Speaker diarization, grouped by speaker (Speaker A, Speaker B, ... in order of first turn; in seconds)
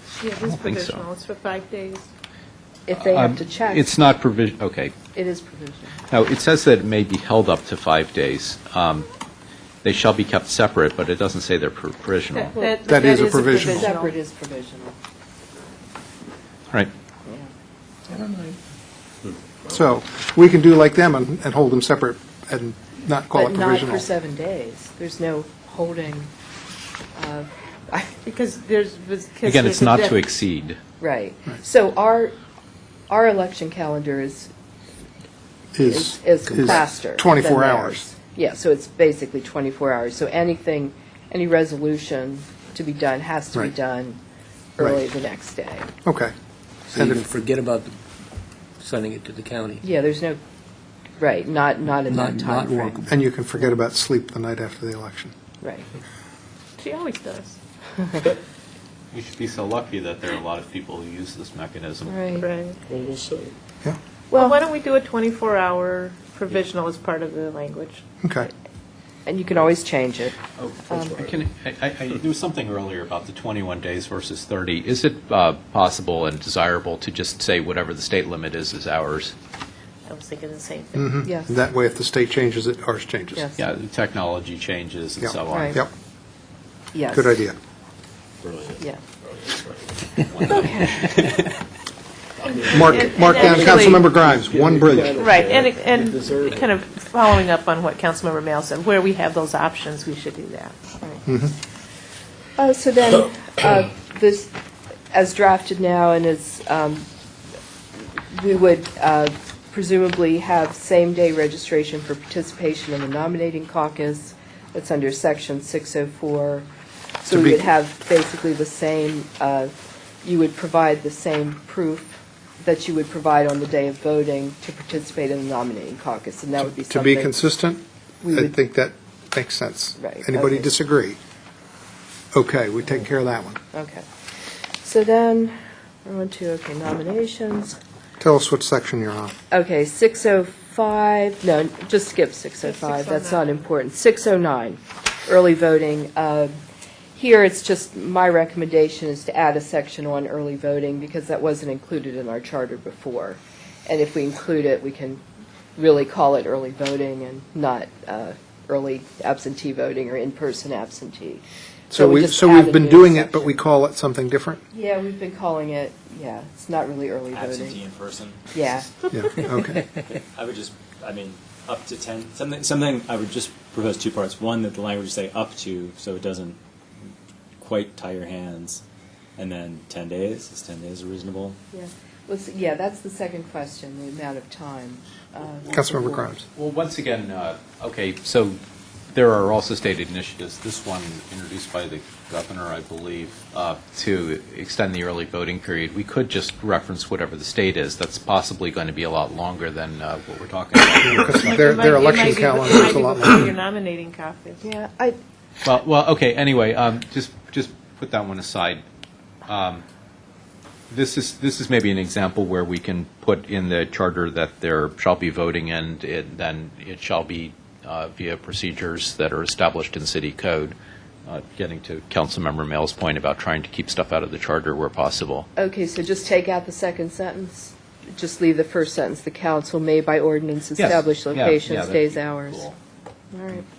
Speaker A: 0.2-2.1, 12.3-14.1, 28.2-30.2, 56.8-57.6, 62.4-62.8, 64.3-68.0, 80.1-81.2, 92.7-94.1, 95.2-100.7, 142.6-143.5, 201.4-204.6
Speaker B: 0.4-1.0, 2.9-4.9, 6.1-9.1, 9.8-12.6, 29.4-30.8, 59.1-62.2, 70.6-79.3, 83.6-85.8, 88.4-88.8, 89.4-91.6, 185.6-188.6, 189.1-201.8, 205.6-208.8, 209.5-209.8, 210.9-220.8, 221.3-225.5, 230.8-232.8
Speaker C: 2.9-3.9, 5.2-6.0, 12.6-14.9, 23.3-26.3, 27.1-28.1, 31.0-32.3, 33.1-34.5, 35.8-44.2, 44.8-45.9, 49.8-50.4, 51.2-53.1, 55.6-55.9, 58.0-58.2, 62.1-62.5, 64.3-64.6, 69.3-70.3, 70.9-71.2, 81.2-81.5, 85.5-85.8, 86.9-87.4, 90.5-91.0, 102.6-104.5, 105.1-107.1, 108.2-116.7, 117.2-127.5, 128.2-128.6, 130.0-130.7, 133.7-134.1, 134.8-137.8, 139.5-146.5, 147.2-155.2, 155.8-163.6, 164.7-167.8, 168.5-169.5, 181.7-186.3, 204.6-205.2, 225.6-232.7, 233.3-233.7
Speaker D: 12.8-13.9, 19.7-24.1, 35.7-38.1, 44.8-45.1, 46.0-46.3, 47.0-47.2, 53.1-55.3, 68.2-68.5, 81.0-83.5, 85.2-85.9, 87.1-87.6, 92.6-95.2, 101.3-101.5, 117.3-117.7, 126.6-131.2, 132.3-133.6, 138.2-139.3, 161.9-164.6, 169.1-169.8, 185.7-186.4, 201.0-203.5
Speaker E: 18.1-18.6, 46.9-48.0, 48.8-49.8, 52.1-53.2, 62.9-63.5, 93.4-96.6
Speaker F: 167.3-168.5, 169.8-176.6, 177.6-178.8, 179.4-181.6